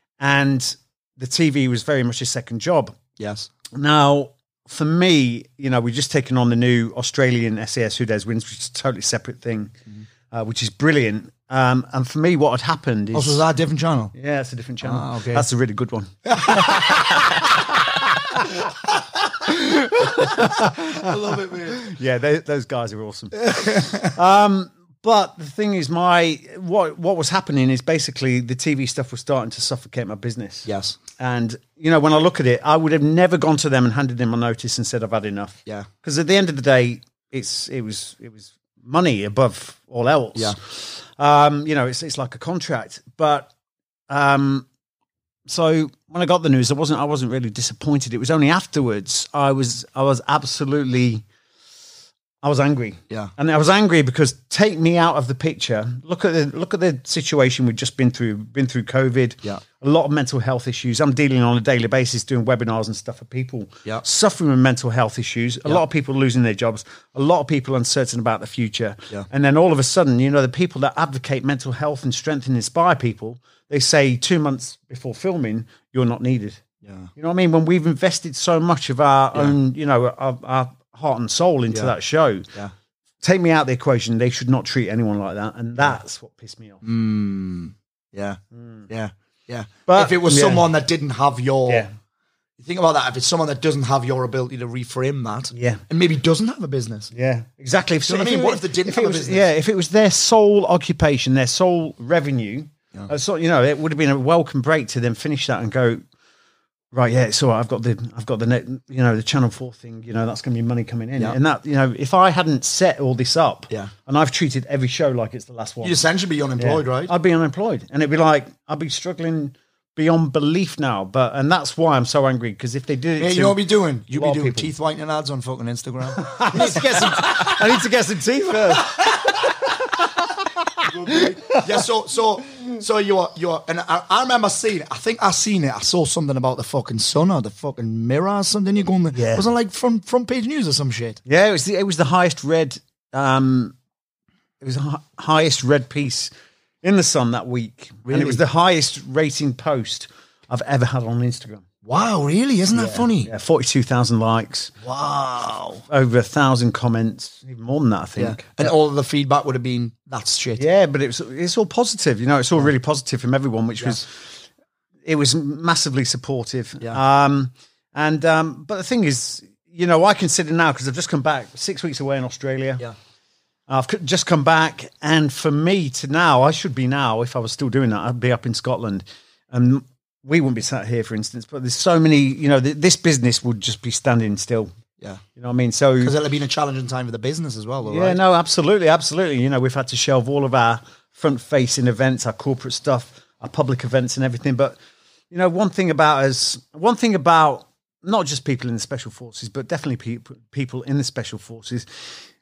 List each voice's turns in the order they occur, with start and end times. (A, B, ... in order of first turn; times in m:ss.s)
0:00.2-0:03.0 A
0:03.2-0:03.5 B
0:03.7-0:09.8 A
0:10.3-0:13.4 A
0:13.1-0:14.1 B
0:14.1-0:18.7 A
0:14.8-0:15.5 B
0:16.2-0:17.3 B
0:19.3-0:21.8 B
0:19.5-0:21.1 A
0:21.7-0:43.5 A
0:23.4-0:24.1 B
0:30.7-0:31.0 B
0:44.1-0:44.7 A
0:45.5-0:51.2 A
0:52.4-1:16.6 A
1:16.8-1:17.1 B
1:17.2-1:22.5 A
1:23.2-1:26.8 A
1:26.8-1:31.9 B
1:28.5-1:28.9 A
1:29.9-1:30.7 A
1:32.6-1:37.1 B
1:35.5-1:35.8 A
1:37.1-1:46.0 A
1:38.1-1:39.5 B
1:46.9-1:56.0 A
1:55.8-1:57.1 B
1:56.6-2:03.6 A
2:03.2-2:07.8 B
2:04.1-2:04.7 A
2:06.2-2:10.1 A
2:08.7-2:09.3 B
2:10.8-2:11.6 A
2:10.8-2:21.2 B
2:19.1-2:19.5 A
2:21.2-2:23.8 A
2:24.6-2:26.3 A
2:26.8-2:31.6 A
2:28.1-2:28.4 B
2:31.8-2:33.3 B
2:32.7-2:34.8 A
2:34.8-2:35.8 B
2:35.9-2:38.8 A
2:38.2-2:40.6 B
2:40.6-2:44.4 A
2:45.0-2:52.8 A
2:53.7-3:04.7 A
3:05.4-3:06.1 A
3:06.0-3:08.2 B
3:07.9-3:14.8 A
3:15.3-3:22.2 A